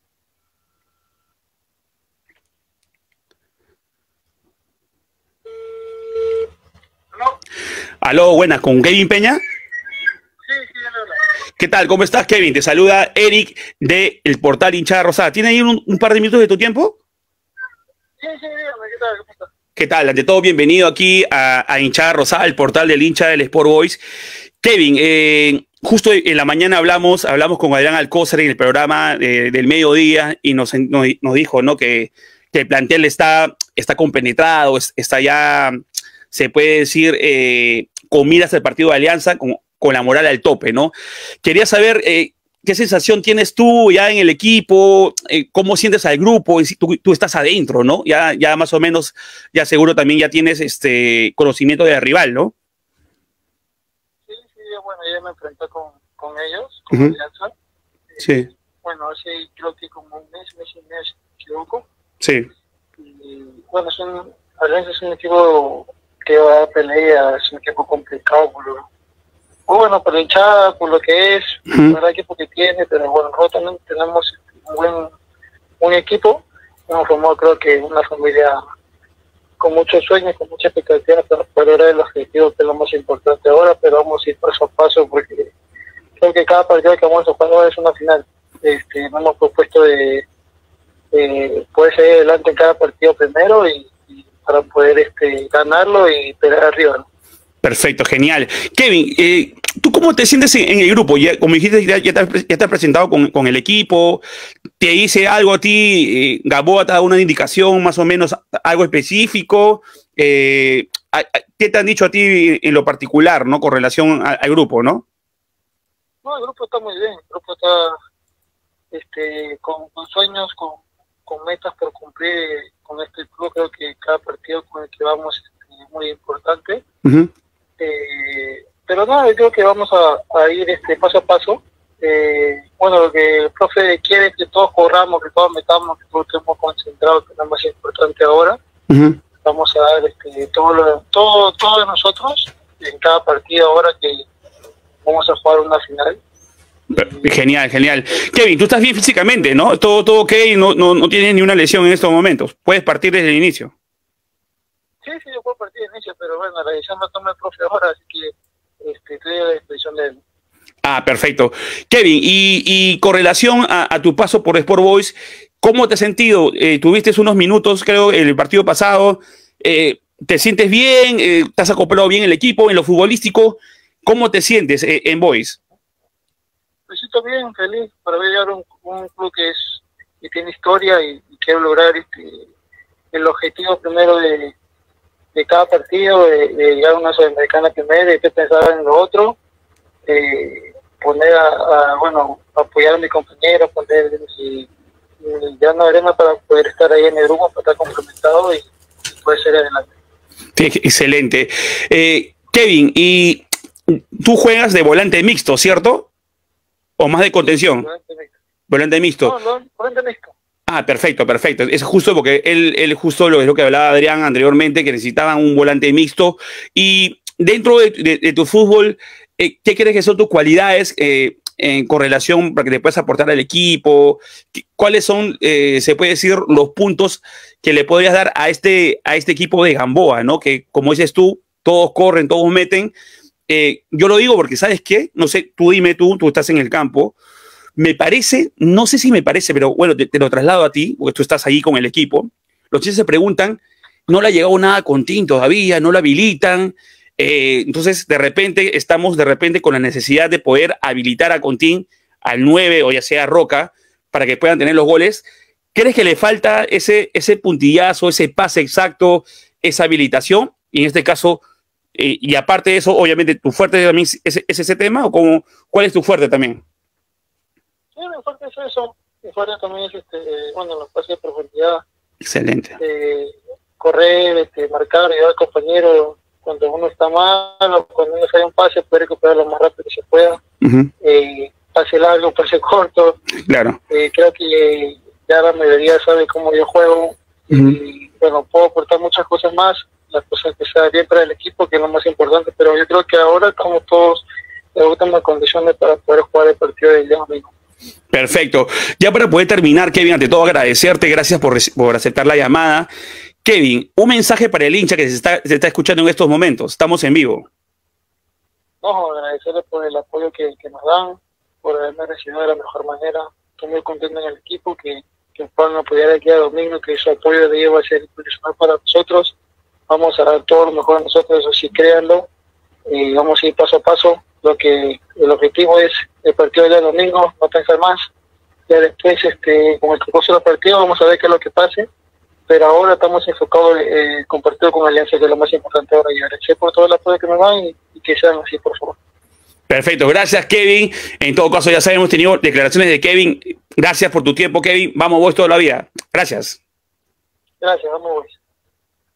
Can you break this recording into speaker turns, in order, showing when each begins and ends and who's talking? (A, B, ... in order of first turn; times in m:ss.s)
0:08.0-0:09.4 A
0:10.5-0:11.2 B
0:11.6-0:17.0 A
0:18.2-0:19.5 B
0:19.8-0:24.0 A
0:24.6-0:35.8 A
0:36.3-0:52.5 A
0:54.3-0:57.5 B
0:58.2-0:58.5 A
0:58.8-1:01.9 B
1:02.2-1:02.5 A
1:03.0-1:08.8 B
1:09.7-1:15.1 B
1:11.7-1:11.9 A
1:15.8-1:18.6 B
1:19.6-1:25.5 B
1:26.2-1:30.2 B
1:31.1-1:37.0 B
1:37.6-1:44.2 A
1:44.8-1:55.0 A
1:56.2-1:57.9 B
1:58.9-2:06.8 B
2:07.0-2:07.3 A
2:07.8-2:18.6 B
2:18.9-2:19.2 A
2:19.4-2:24.2 B
2:25.0-2:26.2 B
2:26.9-2:33.7 A
2:26.9-2:27.4 B
2:35.0-2:40.2 B
2:40.8-2:55.6 A
2:56.9-3:02.5 B
3:03.1-3:04.5 B
3:05.3-3:09.4 B
3:10.0-3:14.7 B
3:15.2-3:19.9 B
3:20.6-3:26.1 A
3:27.0-3:27.8 A
3:27.8-3:28.3 B
3:28.7-3:29.3 A
3:29.2-3:30.3 B
3:30.7-3:52.9 A
3:53.5-3:57.1 A
3:57.8-4:21.4 A
4:21.9-4:26.6 A
4:28.0-4:31.8 B
4:32.2-4:32.8 A
4:32.8-4:40.4 B
4:40.6-4:40.9 A
4:41.0-4:43.2 B
4:43.5-4:43.8 A
4:43.9-4:57.5 B
4:47.5-4:47.8 A
4:58.1-5:02.9 A
5:03.4-5:07.5 A
5:08.8-5:19.3 B
5:19.9-5:22.3 B
5:22.9-5:28.1 B
5:28.7-5:31.9 B
5:32.5-5:39.0 B
5:39.7-5:46.6 A
5:47.6-5:48.4 B